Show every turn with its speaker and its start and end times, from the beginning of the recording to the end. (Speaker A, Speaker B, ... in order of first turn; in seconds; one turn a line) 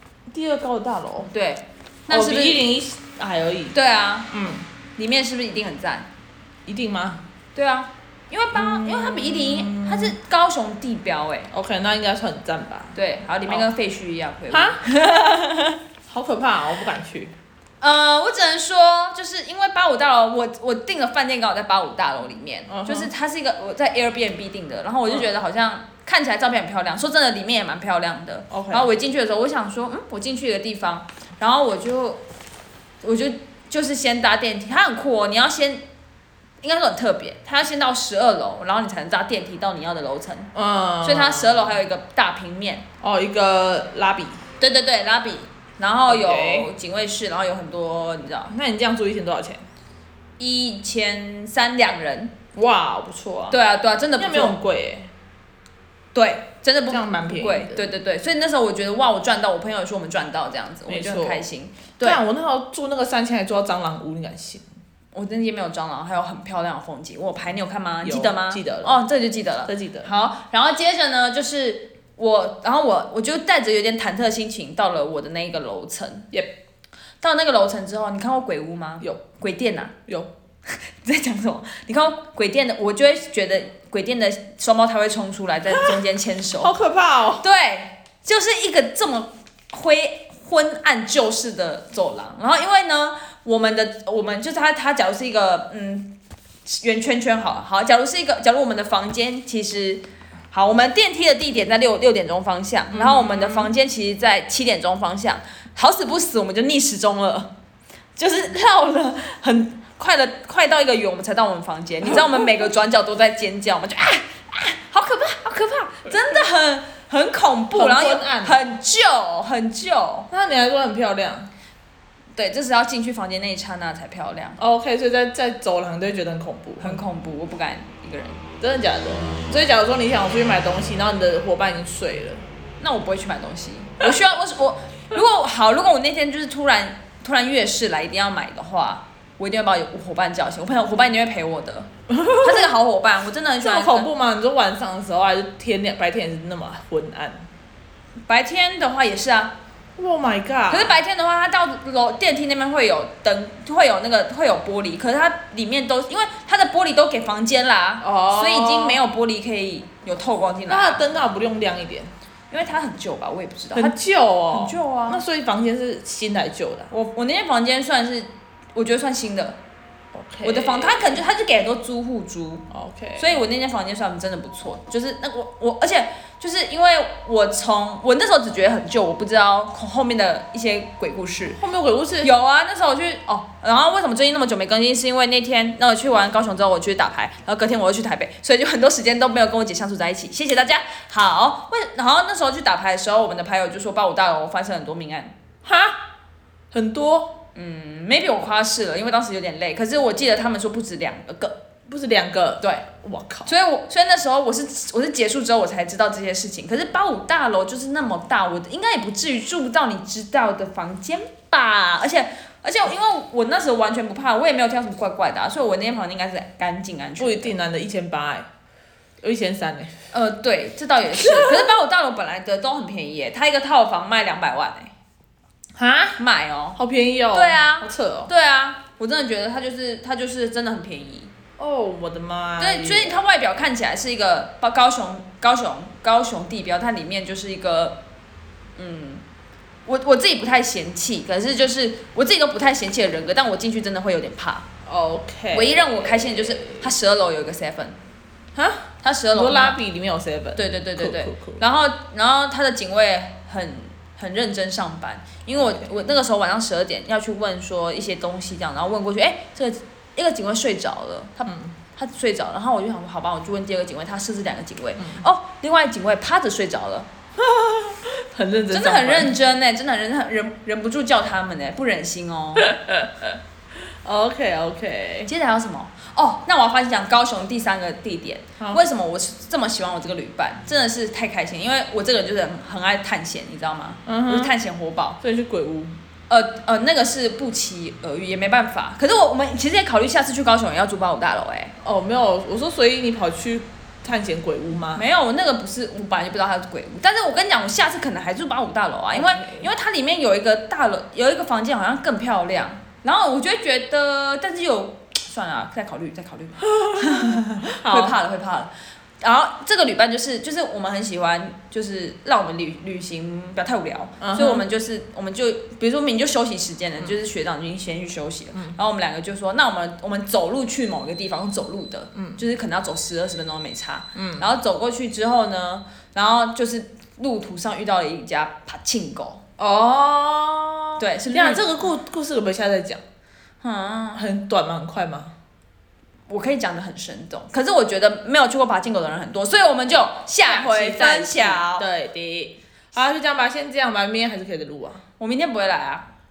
Speaker A: 0.3-1.3
Speaker B: 1.3-2.7
Speaker A: 2.1-3.8
Speaker B: 3.7-4.3
Speaker A: 4.3-4.7
Speaker B: 5.0-6.1
Speaker A: 6.7-7.2
Speaker B: 7.5-11.5
Speaker A: 8.5-10.2
Speaker A: 11.5-13.7
Speaker B: 12.9-15.7
Speaker A: 14.5-14.8
Speaker A: 16.1-17.4
Speaker B: 17.8-32.2
Speaker A: 22.7-23.1
Speaker A: 28.5-28.9
Speaker B: 33.0-35.8
Speaker B: 36.6-40.5
Speaker A: 40.5-41.8
Speaker B: 41.0-42.9
Speaker A: 43.0-44.4
Speaker B: 44.6-48.5
Speaker A: 46.1-46.7
Speaker A: 48.5-49.7
Speaker B: 50.4-52.3
Speaker A: 52.5-53.6
Speaker B: 53.5-54.6
Speaker A: 54.2-55.1
Speaker B: 56.1-62.2
Speaker A: 56.9-57.9
Speaker A: 60.9-61.5
Speaker A: 62.0-64.7
Speaker B: 65.1-76.3
Speaker A: 68.0-69.0
Speaker A: 69.7-70.1
Speaker B: 77.2-79.9
Speaker B: 81.0-86.7
Speaker A: 86.6-87.5
Speaker B: 87.4-96.1
Speaker B: 96.7-107.5
Speaker A: 102.9-103.7
Speaker B: 108.2-120.3
Speaker A: 117.7-118.6
Speaker A: 120.3-121.5
Speaker B: 122.4-124.6
Speaker A: 124.6-127.0
Speaker B: 126.8-128.4
Speaker A: 128.6-132.4
Speaker B: 132.8-144.1
Speaker A: 142.1-142.7
Speaker A: 143.6-147.5
Speaker B: 148.3-149.6
Speaker A: 150.0-151.0
Speaker B: 150.7-161.0
Speaker A: 158.0-159.0
Speaker A: 160.7-162.1
Speaker B: 162.5-164.0
Speaker A: 163.7-166.9
Speaker B: 164.5-165.2
Speaker B: 166.9-169.6
Speaker A: 170.1-171.2
Speaker B: 170.4-172.7
Speaker A: 172.7-173.3
Speaker B: 173.2-181.6
Speaker A: 181.6-182.3
Speaker B: 182.2-195.3
Speaker A: 195.6-196.0
Speaker A: 196.7-197.4
Speaker B: 197.6-201.6
Speaker A: 201.9-203.5
Speaker B: 203.5-217.6
Speaker A: 217.2-218.5
Speaker A: 219.2-219.9
Speaker B: 220.1-224.9
Speaker A: 221.1-221.7
Speaker A: 225.8-226.2
Speaker B: 226.2-226.8
Speaker A: 226.8-228.3
Speaker B: 227.3-231.3
Speaker A: 231.6-233.2
Speaker B: 232.6-238.0
Speaker B: 238.8-239.2
Speaker B: 239.9-244.7
Speaker A: 244.9-246.9
Speaker B: 245.5-248.0
Speaker A: 248.6-251.6
Speaker B: 249.0-249.8
Speaker B: 250.6-267.1
Speaker A: 255.6-255.9
Speaker A: 261.5-261.8
Speaker A: 267.4-269.3
Speaker B: 268.7-272.7
Speaker A: 272.6-273.3
Speaker A: 274.0-275.3
Speaker B: 275.3-285.2
Speaker A: 284.1-284.5
Speaker A: 285.2-286.0
Speaker B: 286.3-291.7
Speaker A: 291.8-295.1
Speaker B: 294.9-329.4
Speaker A: 299.1-299.7
Speaker A: 306.8-308.2
Speaker A: 314.2-314.7
Speaker A: 322.1-322.4
Speaker A: 324.1-324.5
Speaker A: 329.6-333.0
Speaker B: 331.0-331.6
Speaker B: 333.6-334.2
Speaker A: 334.1-335.3
Speaker B: 336.3-341.9
Speaker A: 340.4-345.0
Speaker B: 345.2-346.1